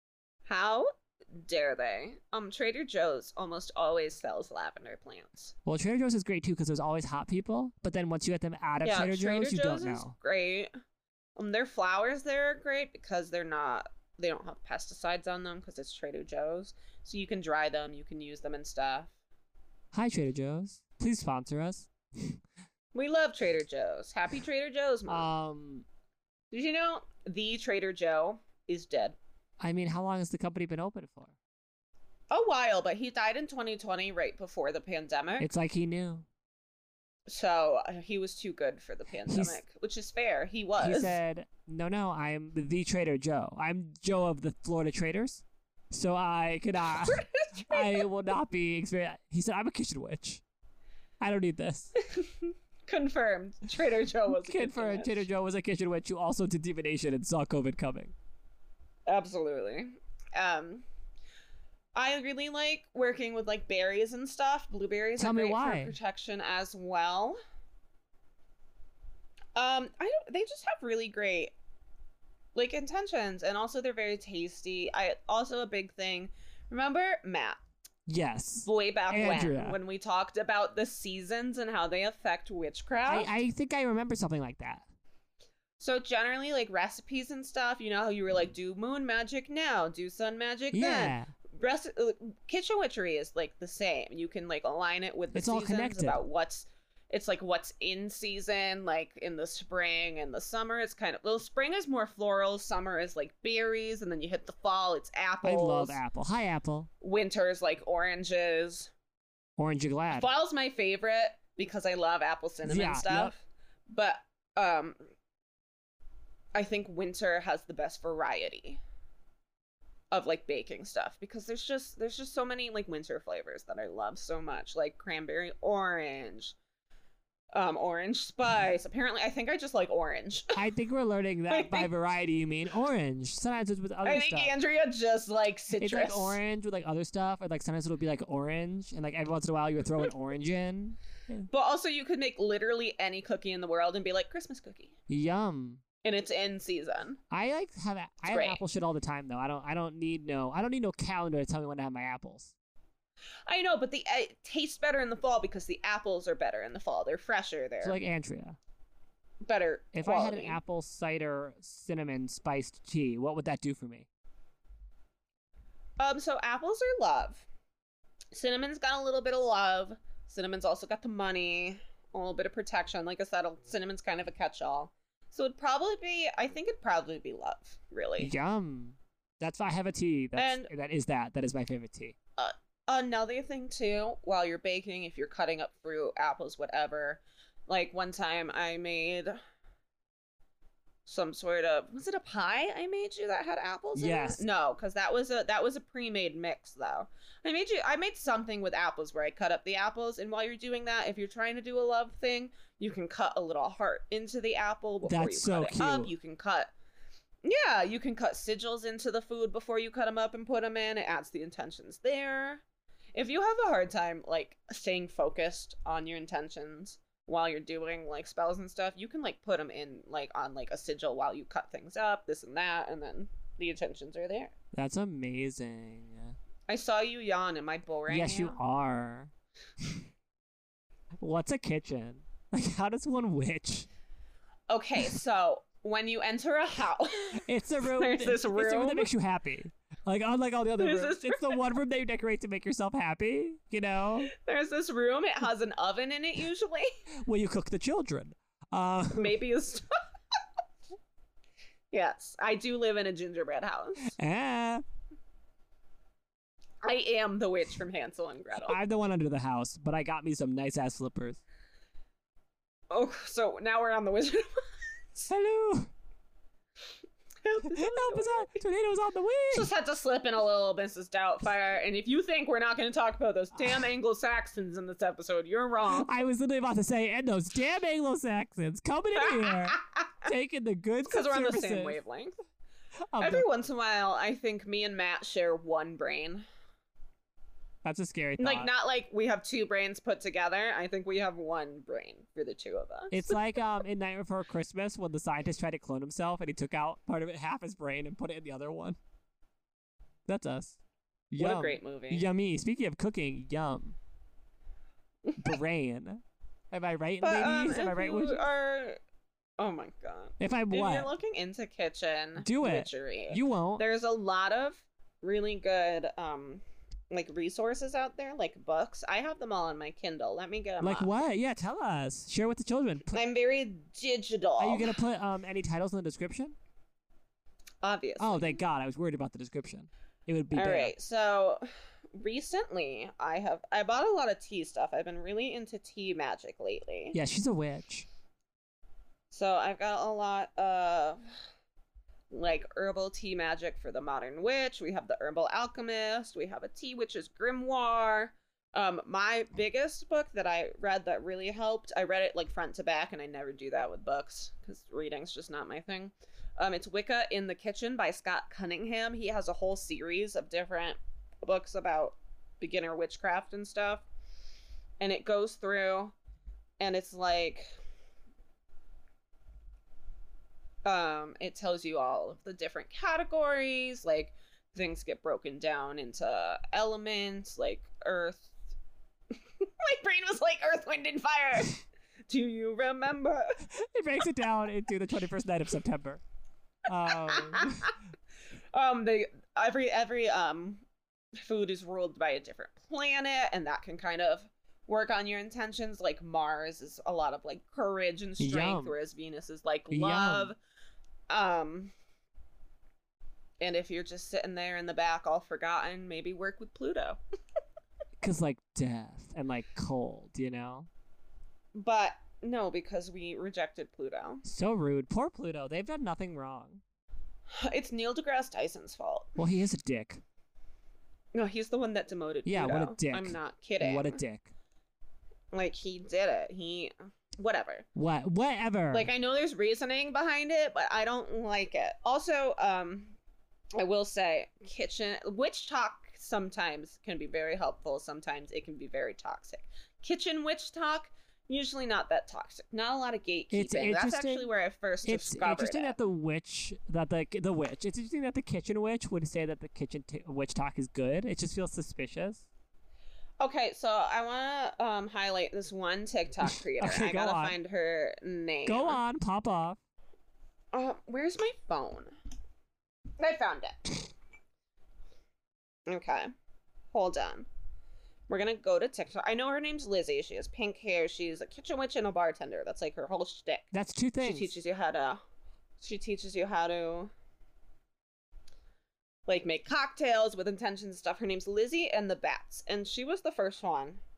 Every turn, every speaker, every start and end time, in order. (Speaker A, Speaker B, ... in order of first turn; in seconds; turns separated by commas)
Speaker A: 0.5-5.5, Speaker B: 5.7-10.1, Speaker A: 8.8-10.7, Speaker A: 11.4-19.1, Speaker B: 19.9-22.4, Speaker A: 22.9-25.3, Speaker B: 25.1-25.9, Speaker A: 26.5-29.2, Speaker B: 29.6-31.4, Speaker A: 32.3-35.5, Speaker B: 35.4-36.3, Speaker A: 37.3-41.2, Speaker B: 39.3-39.6, Speaker B: 40.8-50.4, Speaker A: 47.0-48.1, Speaker B: 51.2-52.0, Speaker A: 52.0-55.3, Speaker B: 54.4-58.1, Speaker A: 59.1-60.9, Speaker A: 62.0-67.4, Speaker B: 65.2-66.0, Speaker A: 69.5-71.5, Speaker A: 72.5-77.6, Speaker B: 78.1-79.8, Speaker A: 78.7-83.3, Speaker B: 83.1-84.8, Speaker A: 85.8-106.0, Speaker B: 90.7-91.3, Speaker B: 95.3-96.2, Speaker B: 105.4-106.9, Speaker A: 107.0-108.9, Speaker B: 109.6-110.3, Speaker A: 110.1-115.0, Speaker B: 112.7-113.3, Speaker A: 116.5-118.8, Speaker A: 120.1-126.5, Speaker A: 127.5-130.6, Speaker B: 130.6-134.5, Speaker A: 131.5-131.9, Speaker A: 134.0-136.4, Speaker B: 135.8-141.5, Speaker A: 141.5-144.9, Speaker B: 145.1-145.8, Speaker A: 146.0-147.2, Speaker B: 147.3-152.5, Speaker A: 148.3-148.6, Speaker A: 153.5-158.0, Speaker B: 157.8-158.6, Speaker A: 159.4-160.6, Speaker B: 159.9-164.1, Speaker A: 166.0-167.5, Speaker A: 168.3-178.3, Speaker B: 178.2-182.2, Speaker A: 180.4-180.7, Speaker A: 182.4-189.4, Speaker A: 191.1-206.7, Speaker B: 194.0-194.4, Speaker B: 205.1-206.1, Speaker A: 207.4-212.6, Speaker A: 213.1-224.5, Speaker B: 224.7-226.3, Speaker A: 226.7-228.6, Speaker B: 228.1-229.3, Speaker B: 231.2-233.9, Speaker A: 234.7-239.1, Speaker B: 237.4-244.3, Speaker A: 240.8-241.6, Speaker A: 244.3-246.9, Speaker B: 247.2-249.4, Speaker A: 249.2-250.0, Speaker A: 251.9-254.1, Speaker B: 254.1-254.8, Speaker A: 256.8-258.8, Speaker B: 258.6-261.4, Speaker A: 262.9-265.3, Speaker B: 265.3-265.9, Speaker A: 267.4-268.5, Speaker B: 267.6-269.7, Speaker A: 269.5-276.1, Speaker B: 275.9-282.0, Speaker A: 279.2-280.3, Speaker A: 281.1-282.4, Speaker B: 283.1-283.5, Speaker A: 283.2-286.4, Speaker B: 287.8-288.7, Speaker A: 288.4-293.4, Speaker B: 293.1-299.0, Speaker B: 300.3-300.8, Speaker B: 301.3-304.0, Speaker A: 301.4-302.2, Speaker A: 305.3-305.6, Speaker B: 305.4-308.4, Speaker A: 307.2-309.0, Speaker A: 309.6-321.1, Speaker B: 310.4-311.1, Speaker B: 312.4-313.9, Speaker B: 320.8-323.2, Speaker A: 323.1-325.0, Speaker B: 324.6-326.6, Speaker A: 327.8-328.6, Speaker B: 328.2-330.9, Speaker A: 330.5-337.2, Speaker B: 337.1-338.1, Speaker A: 339.3-341.2, Speaker A: 342.3-364.1, Speaker A: 365.0-366.1, Speaker A: 366.8-367.7, Speaker A: 370.9-378.5, Speaker A: 379.6-383.6, Speaker B: 383.7-386.2, Speaker B: 386.9-387.9, Speaker A: 387.1-387.9, Speaker A: 388.7-390.9, Speaker A: 391.4-400.6, Speaker B: 398.4-399.0, Speaker B: 399.9-400.5, Speaker A: 401.3-401.9, Speaker A: 403.6-407.2, Speaker B: 408.2-410.9, Speaker A: 411.7-414.4, Speaker B: 414.4-416.8, Speaker A: 417.5-419.4, Speaker B: 419.4-420.2, Speaker A: 421.3-424.2, Speaker B: 422.5-424.5, Speaker A: 425.5-427.9, Speaker B: 428.0-429.1, Speaker A: 428.9-433.2, Speaker A: 433.8-446.0, Speaker B: 443.5-444.5, Speaker B: 445.0-452.5, Speaker A: 453.4-459.0, Speaker B: 456.5-457.6, Speaker B: 458.6-459.8, Speaker A: 460.7-462.1, Speaker A: 463.2-464.1, Speaker A: 465.9-466.3, Speaker A: 466.9-467.5, Speaker A: 468.3-475.2, Speaker B: 473.7-474.5, Speaker A: 475.8-477.1, Speaker A: 479.3-484.0